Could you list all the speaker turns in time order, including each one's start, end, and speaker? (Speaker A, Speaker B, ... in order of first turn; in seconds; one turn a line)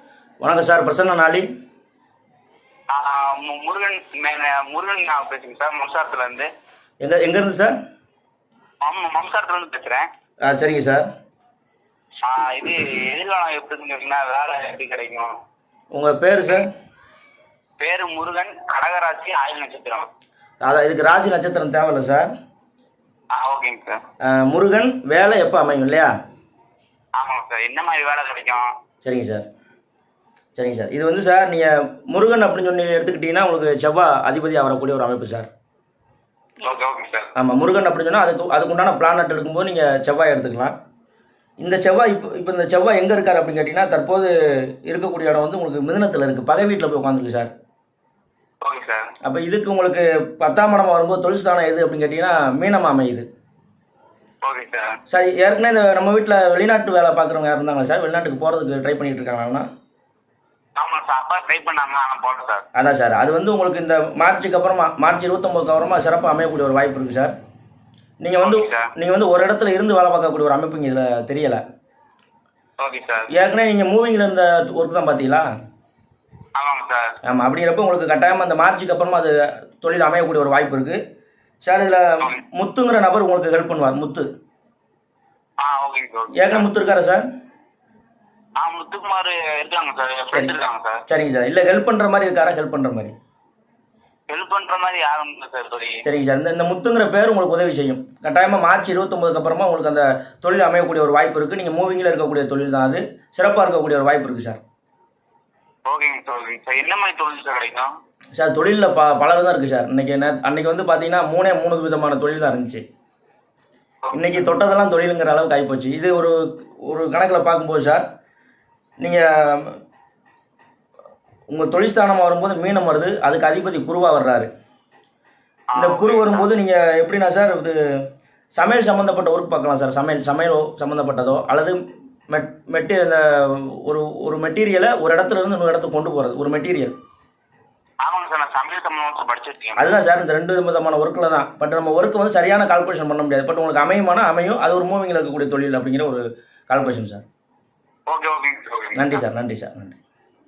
Speaker A: 0.4-1.5
Speaker B: 2.9-6.5
Speaker A: 7.0-7.7
Speaker B: 8.8-10.1
Speaker A: 10.4-11.1
Speaker B: 12.2-15.4
Speaker A: 15.9-16.7
Speaker B: 17.8-20.1
Speaker A: 20.6-22.3
Speaker B: 23.3-24.0
Speaker A: 24.2-26.1
Speaker B: 27.1-28.7
Speaker A: 29.0-29.4
Speaker A: 30.6-35.5
Speaker B: 36.6-37.3
Speaker A: 37.4-40.7
Speaker A: 41.6-47.5
Speaker B: 48.6-49.1
Speaker A: 49.2-53.3
Speaker B: 54.4-55.0
Speaker A: 55.1-59.6
Speaker B: 60.8-62.6
Speaker A: 62.7-67.3
Speaker A: 68.2-71.6
Speaker B: 68.4-68.9
Speaker B: 72.8-73.3
Speaker A: 73.3-75.5
Speaker B: 76.5-77.1
Speaker A: 77.2-81.0
Speaker A: 81.6-84.3
Speaker B: 85.6-86.7
Speaker A: 86.3-87.2
Speaker B: 88.6-91.0
Speaker A: 91.1-93.1
Speaker B: 94.3-96.0
Speaker A: 96.0-104.6
Speaker B: 105.8-107.9
Speaker A: 108.3-112.8
Speaker B: 114.0-114.5
Speaker A: 114.1-118.0
Speaker A: 119.0-119.8
Speaker A: 121.5-124.5
Speaker B: 125.7-126.4
Speaker A: 125.8-127.8
Speaker A: 128.6-131.8
Speaker A: 132.3-136.9
Speaker B: 138.0-139.8
Speaker A: 139.8-147.2
Speaker B: 148.1-149.2
Speaker A: 148.9-150.0